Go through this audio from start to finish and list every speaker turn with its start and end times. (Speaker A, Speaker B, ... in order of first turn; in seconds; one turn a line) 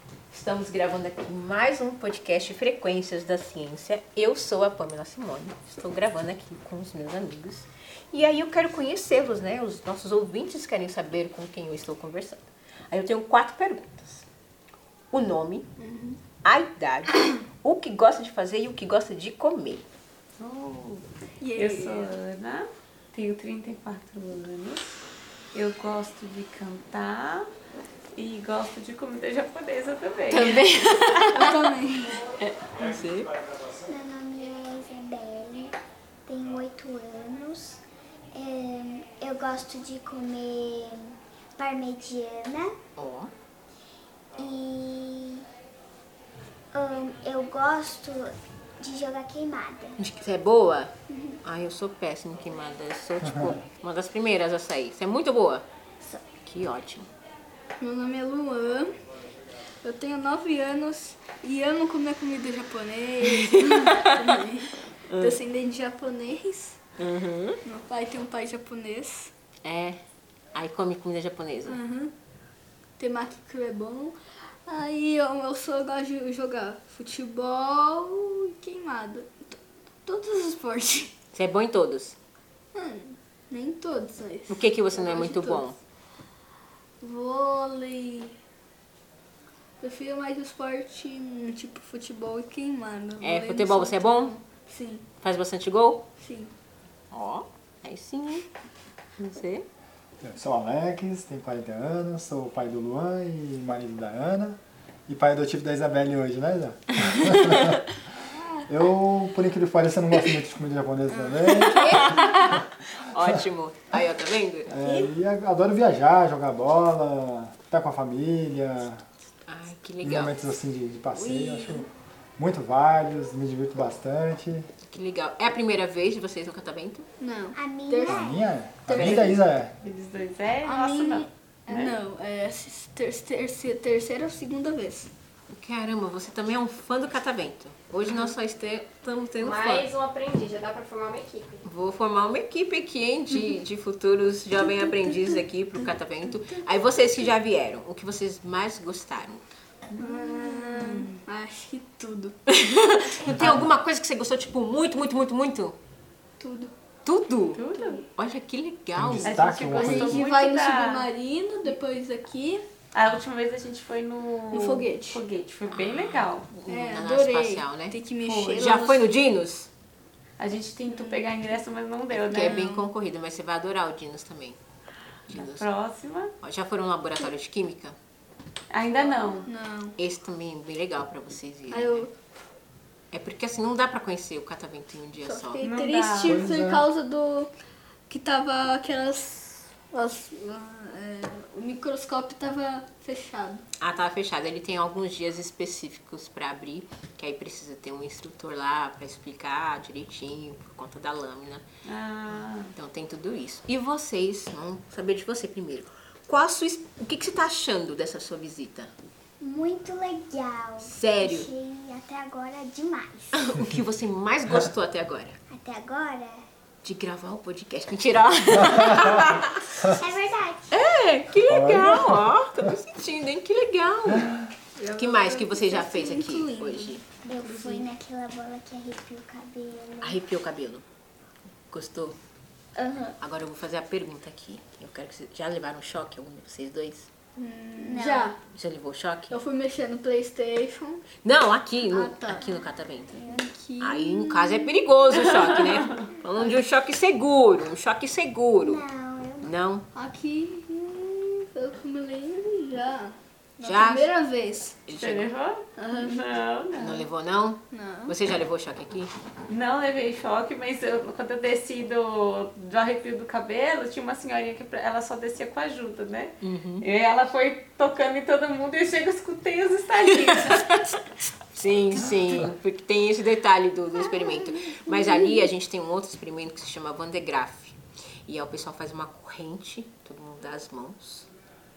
Speaker A: 0.3-14.3
Speaker A: 15.1-15.7
Speaker B: 15.8-16.2
Speaker A: 16.4-19.8
Speaker C: 20.4-21.0
Speaker B: 21.4-22.1
Speaker C: 21.6-24.9
Speaker C: 25.5-27.5
Speaker C: 28.1-30.8
Speaker A: 30.3-31.6
Speaker B: 31.3-32.2
Speaker A: 32.4-33.4
Speaker D: 33.8-35.8
Speaker D: 36.3-37.8
Speaker D: 38.3-42.8
Speaker A: 43.0-43.3
Speaker D: 44.4-45.5
Speaker D: 46.7-50.0
Speaker A: 50.0-55.7
Speaker B: 51.1-51.4
Speaker E: 53.2-53.6
Speaker A: 56.4-57.1
Speaker B: 57.8-59.0
Speaker B: 59.8-66.8
Speaker A: 67.0-67.6
Speaker B: 67.6-69.3
Speaker A: 69.6-70.0
Speaker A: 70.5-71.8
Speaker B: 71.7-72.1
Speaker B: 73.0-81.1
Speaker A: 81.3-82.2
Speaker B: 82.7-85.7
Speaker A: 84.5-85.8
Speaker B: 87.0-88.4
Speaker B: 89.8-95.0
Speaker A: 93.2-94.3
Speaker A: 95.2-96.1
Speaker B: 96.2-96.5
Speaker A: 97.1-98.5
Speaker A: 99.2-99.7
Speaker E: 100.2-107.8
Speaker E: 108.7-112.2
Speaker B: 111.1-112.2
Speaker A: 111.6-114.8
Speaker E: 114.7-119.0
Speaker A: 119.5-120.4
Speaker E: 120.0-124.7
Speaker B: 121.1-121.9
Speaker A: 124.9-127.1
Speaker B: 127.2-128.3
Speaker D: 127.5-128.5
Speaker E: 128.1-129.7
Speaker B: 128.8-129.4
Speaker A: 128.9-129.4
Speaker C: 129.8-132.0
Speaker B: 130.6-135.1
Speaker A: 135.5-139.9
Speaker F: 139.4-141.6
Speaker A: 141.6-149.4
Speaker C: 149.9-151.1
Speaker B: 150.0-152.3
Speaker A: 152.5-155.8
Speaker E: 153.2-153.7
Speaker B: 156.4-156.7
Speaker A: 157.1-159.3
Speaker C: 157.5-158.1
Speaker E: 159.0-160.2
Speaker C: 159.2-161.1
Speaker B: 159.7-162.6
Speaker C: 162.9-166.5
Speaker B: 164.5-165.2
Speaker A: 165.7-168.1
Speaker B: 166.7-169.1
Speaker C: 168.2-168.7
Speaker A: 168.6-169.7
Speaker C: 170.4-172.6
Speaker B: 170.9-171.3
Speaker A: 172.1-174.6
Speaker B: 172.4-172.8
Speaker A: 175.3-175.7
Speaker C: 175.3-176.3
Speaker A: 176.4-177.9
Speaker C: 178.7-179.5
Speaker B: 179.1-180.0
Speaker A: 180.0-182.1
Speaker B: 181.7-182.1
Speaker A: 183.1-185.7
Speaker B: 185.2-187.5
Speaker C: 185.6-186.4
Speaker E: 186.2-186.9
Speaker B: 188.1-193.6
Speaker A: 193.8-201.7
Speaker C: 201.9-202.7
Speaker A: 202.7-208.9
Speaker D: 209.4-213.4
Speaker A: 210.8-211.5
Speaker A: 213.3-215.4
Speaker D: 215.5-216.4
Speaker A: 216.8-219.8
Speaker D: 219.8-220.9
Speaker A: 220.7-224.4
Speaker E: 221.4-222.6
Speaker E: 224.1-224.4
Speaker B: 224.8-227.9
Speaker A: 225.0-227.1
Speaker D: 227.3-230.2
Speaker A: 230.0-230.8
Speaker A: 231.7-232.2
Speaker B: 232.8-233.2
Speaker A: 233.2-237.1
Speaker B: 237.4-238.4
Speaker D: 237.8-238.3
Speaker A: 238.5-239.4
Speaker B: 239.3-241.0
Speaker A: 241.2-243.2
Speaker B: 241.9-242.5
Speaker D: 242.3-242.6
Speaker D: 243.2-243.5
Speaker B: 243.3-244.8
Speaker A: 243.8-248.8
Speaker C: 245.4-246.1
Speaker D: 248.6-249.5
Speaker A: 249.4-249.9
Speaker B: 249.9-254.8
Speaker A: 253.6-254.1
Speaker A: 254.9-255.3
Speaker C: 254.9-257.1
Speaker B: 255.8-256.2
Speaker A: 256.8-259.1
Speaker B: 257.7-258.1
Speaker C: 259.5-270.8
Speaker A: 266.4-266.9
Speaker A: 270.1-271.0
Speaker A: 271.5-281.3
Speaker E: 271.9-272.5